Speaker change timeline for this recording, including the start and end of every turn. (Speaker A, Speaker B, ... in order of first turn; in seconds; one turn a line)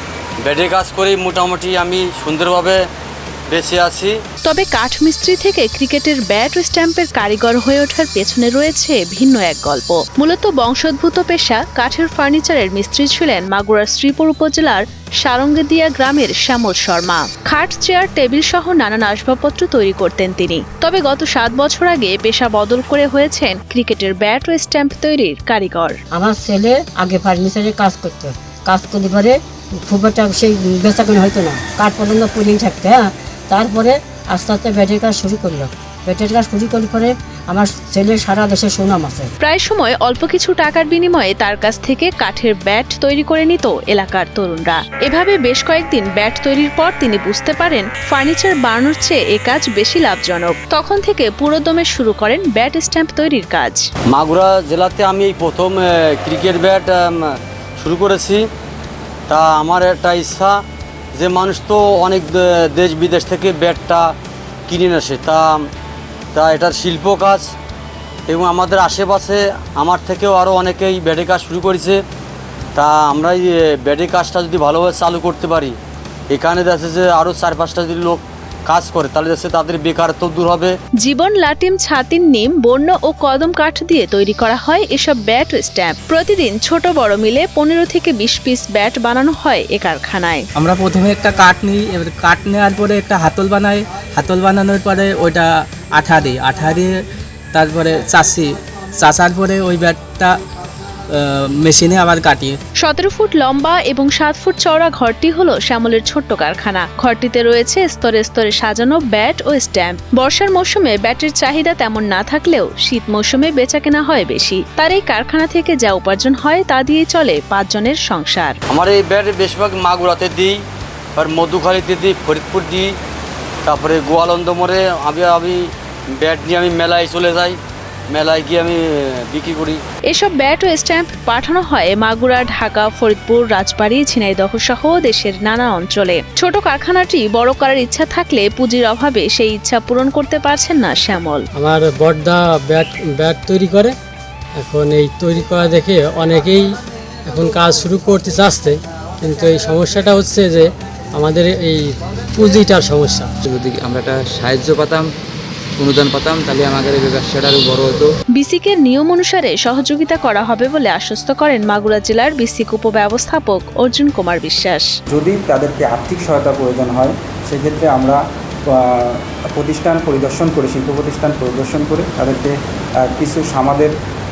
Speaker A: 0.4-2.8
Speaker A: 3.5-4.2
Speaker B: 4.5-26.0
Speaker C: 26.1-39.3
Speaker B: 39.4-53.9
Speaker A: 54.1-58.5
Speaker A: 59.3-60.6
Speaker A: 61.1-64.1
Speaker A: 64.7-65.7
Speaker A: 66.3-67.5
Speaker A: 68.3-72.0
Speaker A: 72.8-75.8
Speaker A: 76.3-80.7
Speaker B: 81.0-90.5
Speaker D: 90.5-97.0
Speaker D: 97.5-100.4
Speaker D: 101.1-102.6
Speaker B: 102.8-118.6
Speaker A: 118.7-120.6
Speaker A: 121.2-122.9
Speaker A: 123.7-127.6
Speaker A: 128.1-129.8
Speaker B: 130.1-141.5
Speaker E: 141.6-143.9
Speaker E: 144.6-146.7
Speaker E: 147.3-151.9
Speaker D: 152.4-152.7
Speaker E: 152.4-153.3
Speaker F: 153.4-155.1
Speaker F: 155.8-158.1
Speaker B: 158.3-164.9
Speaker G: 165.1-172.6
Speaker G: 173.1-173.9